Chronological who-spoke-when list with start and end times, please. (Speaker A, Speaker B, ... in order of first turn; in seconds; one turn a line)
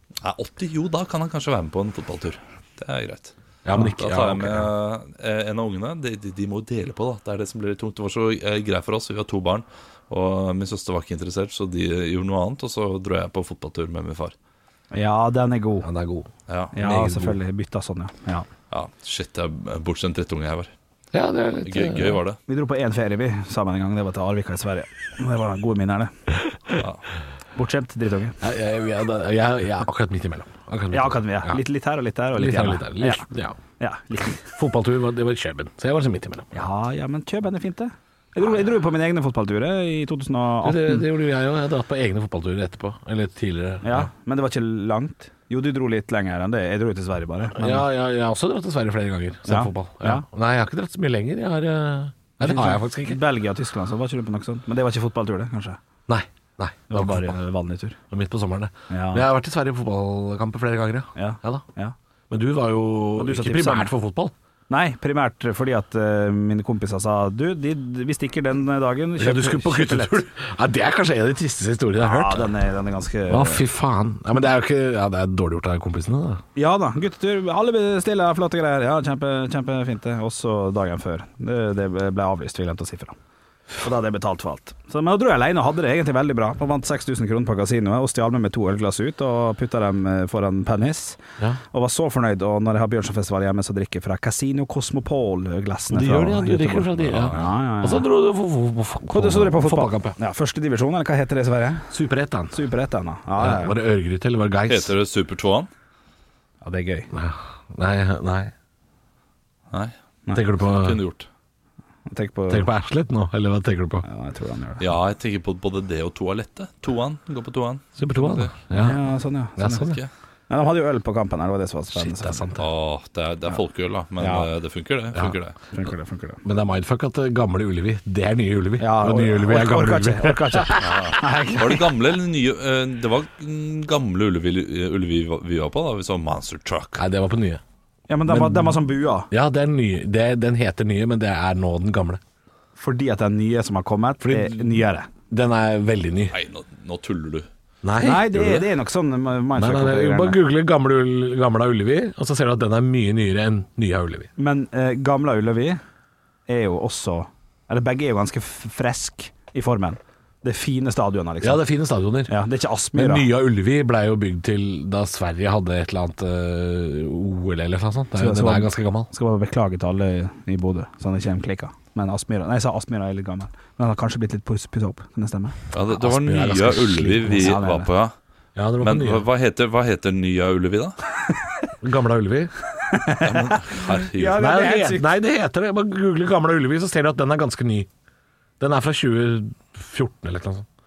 Speaker A: 0.2-14.3
Speaker B: 3.6-4.7
Speaker C: 14.9-15.9
Speaker B: 15.8-17.4
Speaker A: 16.5-16.8
Speaker C: 16.8-18.5
Speaker A: 18.7-20.7
Speaker B: 21.1-22.2
Speaker A: 21.6-22.4
Speaker C: 22.5-26.1
Speaker A: 26.8-27.0
Speaker C: 27.6-28.4
Speaker B: 28.4-31.6
Speaker C: 30.9-33.2
Speaker B: 32.3-33.6
Speaker C: 33.8-34.5
Speaker B: 34.5-36.7
Speaker C: 36.5-41.0
Speaker B: 40.6-44.1
Speaker C: 43.8-47.8
Speaker B: 47.5-53.2
Speaker C: 49.5-50.2
Speaker C: 52.4-55.8
Speaker B: 56.1-57.4
Speaker C: 56.9-58.0
Speaker B: 58.1-61.6
Speaker C: 58.9-59.2
Speaker C: 61.1-61.9
Speaker B: 62.3-64.3
Speaker C: 63.1-63.9
Speaker C: 64.7-70.2
Speaker B: 69.2-72.5
Speaker C: 72.0-73.6
Speaker B: 73.3-76.4
Speaker C: 76.5-83.2
Speaker C: 83.8-91.2
Speaker C: 91.7-98.0
Speaker B: 95.9-100.2
Speaker A: 97.0-97.4
Speaker C: 99.1-101.8
Speaker B: 101.9-102.6
Speaker C: 102.5-103.8
Speaker B: 103.4-104.9
Speaker A: 104.7-105.7
Speaker C: 106.6-107.1
Speaker B: 107.1-108.5
Speaker B: 110.3-111.0
Speaker A: 110.6-111.3
Speaker C: 112.1-112.7
Speaker B: 112.5-114.0
Speaker C: 114.0-114.8
Speaker A: 114.8-118.5
Speaker B: 118.0-119.0
Speaker C: 118.8-119.9
Speaker B: 119.6-120.0
Speaker A: 119.8-120.1
Speaker C: 120.5-122.6
Speaker B: 121.9-122.5
Speaker A: 122.5-125.5
Speaker C: 124.2-124.5
Speaker C: 125.7-126.4
Speaker B: 126.4-130.9
Speaker C: 128.8-131.8
Speaker A: 130.8-137.0
Speaker B: 137.0-137.6
Speaker C: 138.1-139.3
Speaker B: 138.3-142.2
Speaker C: 142.8-145.1
Speaker B: 144.2-146.3
Speaker A: 146.3-147.5
Speaker B: 147.8-148.7
Speaker C: 148.0-150.4
Speaker B: 149.6-154.3
Speaker C: 154.4-155.8
Speaker C: 156.5-161.6
Speaker B: 161.4-162.3
Speaker C: 162.3-163.3
Speaker B: 162.9-169.1
Speaker C: 168.2-175.6
Speaker A: 175.7-178.1
Speaker B: 175.9-177.5
Speaker C: 177.3-177.9
Speaker B: 178.6-179.3
Speaker A: 178.8-181.0
Speaker B: 181.8-182.5
Speaker C: 182.9-185.1
Speaker A: 183.2-184.4
Speaker B: 184.3-187.9
Speaker B: 188.6-190.7